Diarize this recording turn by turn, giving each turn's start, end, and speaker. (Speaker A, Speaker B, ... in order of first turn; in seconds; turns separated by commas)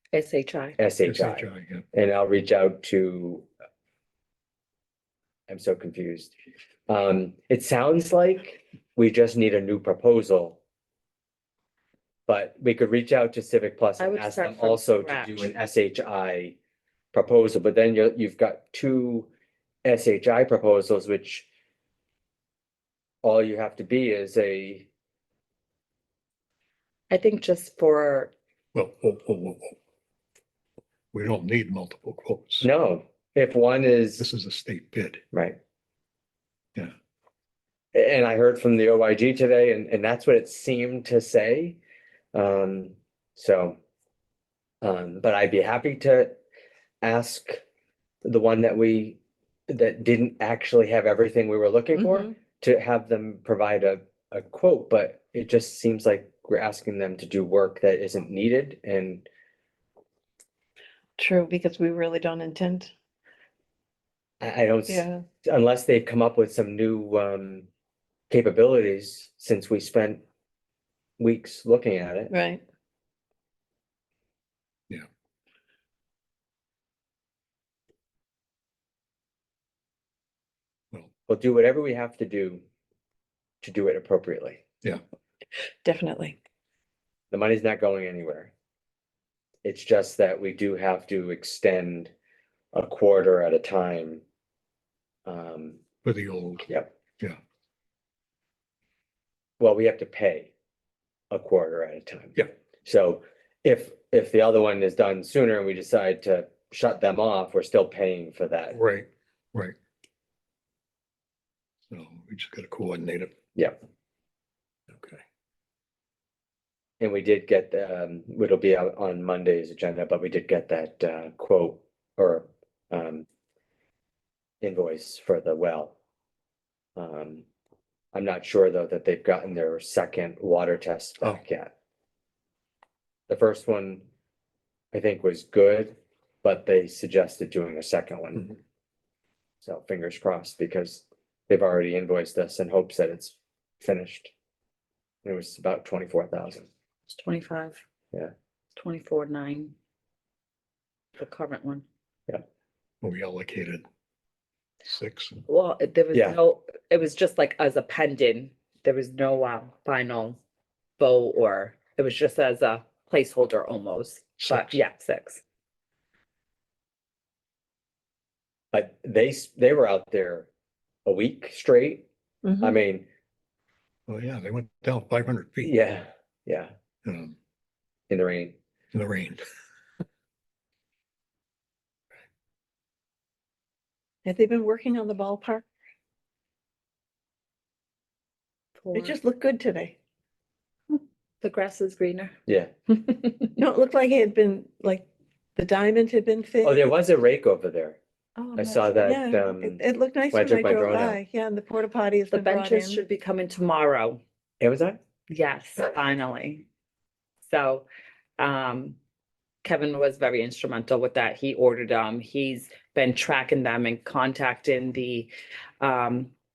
Speaker A: 0.1-0.8, Speaker B: 0.8-3.5, Speaker C: 1.0-1.9, Speaker B: 5.5-6.3, Speaker B: 6.9-10.6, Speaker B: 12.3-16.5, Speaker A: 14.0-15.5, Speaker B: 17.1-19.3, Speaker B: 19.8-21.5, Speaker B: 23.2-24.9, Speaker A: 27.1-28.3, Speaker C: 28.7-29.7, Speaker C: 31.1-32.7, Speaker B: 32.6-34.2, Speaker C: 34.2-35.2, Speaker B: 35.3-35.6, Speaker B: 37.9-41.8, Speaker B: 42.3-43.8, Speaker B: 44.8-46.4, Speaker B: 47.0-47.6, Speaker B: 48.2-49.2, Speaker B: 49.7-59.2, Speaker D: 52.0-52.3, Speaker D: 61.2-62.9, Speaker B: 64.4-67.7, Speaker D: 64.9-65.2, Speaker B: 68.3-70.2, Speaker B: 71.2-72.3, Speaker D: 72.3-72.6, Speaker B: 81.3-82.6, Speaker B: 83.6-84.6, Speaker D: 85.8-86.4, Speaker B: 87.3-88.5, Speaker B: 89.6-92.1, Speaker B: 92.7-94.2, Speaker B: 95.2-95.8, Speaker C: 96.0-96.7, Speaker B: 99.6-100.5, Speaker B: 101.3-108.8, Speaker C: 108.7-109.7, Speaker C: 111.9-113.3, Speaker C: 114.9-115.2, Speaker B: 117.0-123.2, Speaker B: 124.6-125.9, Speaker B: 127.0-127.4, Speaker B: 128.1-131.7, Speaker B: 133.3-134.1, Speaker B: 134.9-138.5, Speaker B: 139.6-144.3, Speaker B: 145.2-146.7, Speaker A: 147.1-147.8, Speaker A: 148.8-149.7, Speaker A: 151.2-151.8, Speaker C: 153.0-153.8, Speaker C: 154.8-155.4, Speaker A: 155.5-160.4, Speaker A: 161.0-165.4, Speaker C: 164.4-164.8, Speaker B: 168.7-170.5, Speaker B: 171.0-172.1, Speaker D: 172.4-172.8, Speaker B: 172.6-173.1, Speaker C: 174.1-175.7, Speaker B: 175.6-176.7, Speaker C: 177.0-177.3, Speaker B: 178.1-178.6, Speaker C: 178.9-179.4, Speaker D: 184.2-185.6, Speaker A: 188.8-189.2, Speaker D: 188.9-189.9, Speaker A: 190.9-192.4, Speaker A: 192.9-193.6, Speaker D: 193.6-196.9, Speaker B: 196.6-198.0, Speaker A: 198.4-198.9, Speaker B: 198.6-201.2, Speaker D: 199.0-203.0, Speaker A: 202.3-204.2, Speaker B: 204.6-205.0, Speaker A: 205.3-206.7, Speaker A: 207.4-207.8, Speaker A: 208.4-209.0, Speaker A: 209.6-215.3, Speaker A: 215.8-216.3